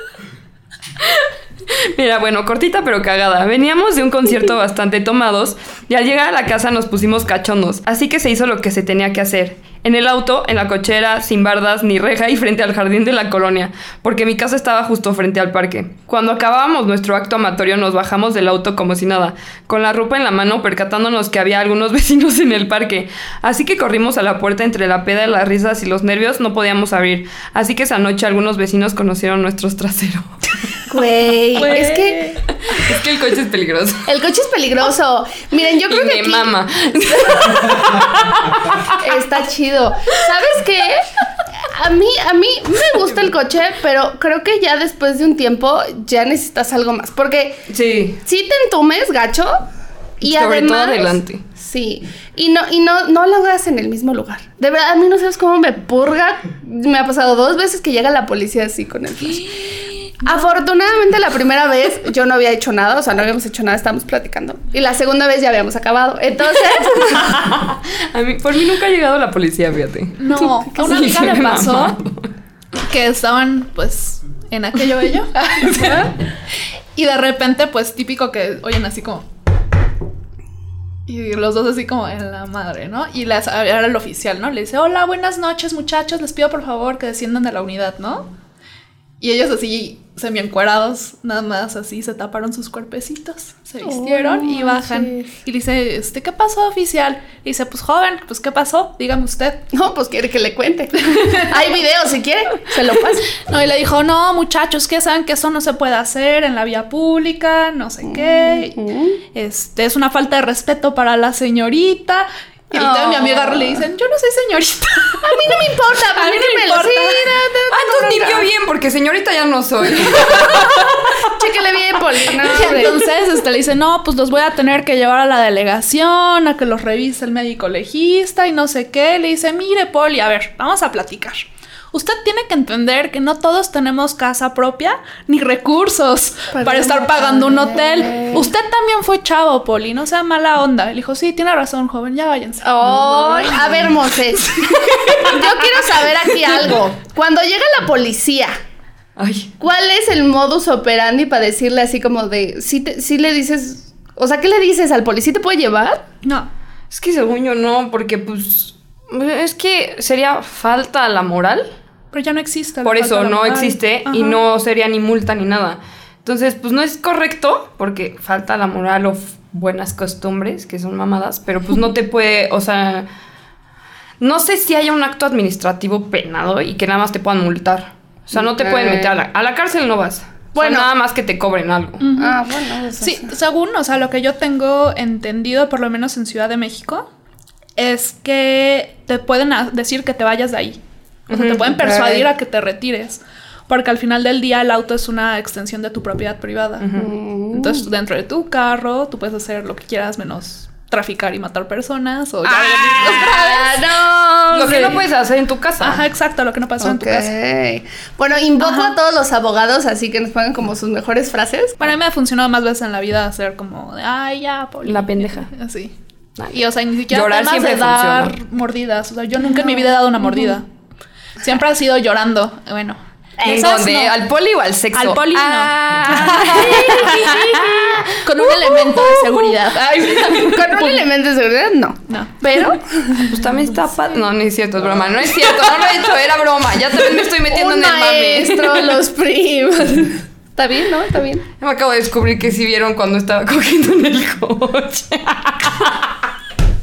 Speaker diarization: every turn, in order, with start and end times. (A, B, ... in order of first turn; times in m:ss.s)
0:01.0-0:30.6 A
0:30.9-0:32.4 B
0:31.6-0:32.4 C
0:32.5-0:34.1 A
0:34.0-0:36.5 B
0:35.8-0:39.2 A
0:37.2-0:37.6 B
0:38.9-0:47.7 B
0:47.7-0:48.2 A
0:48.2-0:49.6 B
0:50.2-1:07.2 B
0:50.2-0:51.4 A
1:06.9-1:12.3 A
1:10.2-1:12.0 C
1:12.8-1:19.2 C
1:15.6-1:16.1 A
1:21.1-1:28.3 C
1:29.2-1:39.6 C
1:33.8-1:35.3 B
1:39.7-1:43.3 B
1:41.2-1:41.5 C
1:43.3-1:48.8 C
1:48.0-1:49.2 B
1:49.3-1:55.6 C
1:52.7-1:53.8 B
1:55.2-1:58.5 B
1:56.1-1:57.4 C
1:57.7-2:01.3 A
2:01.3-2:03.0 B
2:02.4-2:23.9 C
2:16.5-2:18.5 B
2:22.6-2:28.6 B
2:22.8-2:23.7 A
2:29.2-2:29.5 A
2:29.6-2:36.1 B
2:36.2-2:36.5 C
2:36.9-2:41.7 A
2:42.1-2:44.4 C
2:42.8-2:53.1 A
2:54.2-3:02.0 A
2:58.3-2:59.1 B
3:00.6-3:00.9 B
3:02.0-3:02.4 C
3:02.2-3:03.3 B
3:03.0-3:07.1 C
3:07.8-3:16.9 C
3:11.3-3:11.8 A
3:11.8-3:12.2 B
3:16.8-3:17.1 A
3:16.9-3:17.9 B
3:17.5-3:24.0 C
3:22.4-3:25.0 B
3:24.5-3:26.0 A
3:24.6-3:25.0 C
3:25.8-3:27.3 C
3:26.8-3:31.8 B
3:28.6-3:28.9 C
3:31.8-3:35.9 C
3:34.8-3:35.5 A
3:36.4-3:38.4 A
3:36.5-3:40.7 C
3:39.6-3:40.5 B
3:41.4-3:44.2 C
3:43.4-3:43.6 B
3:43.4-3:48.0 A
3:44.9-3:47.4 C
3:46.1-3:53.2 B
3:48.2-3:51.0 C
3:49.9-3:50.4 A
3:52.1-3:53.3 C
3:53.2-3:58.9 A
3:57.4-4:01.4 B
4:01.6-4:06.3 A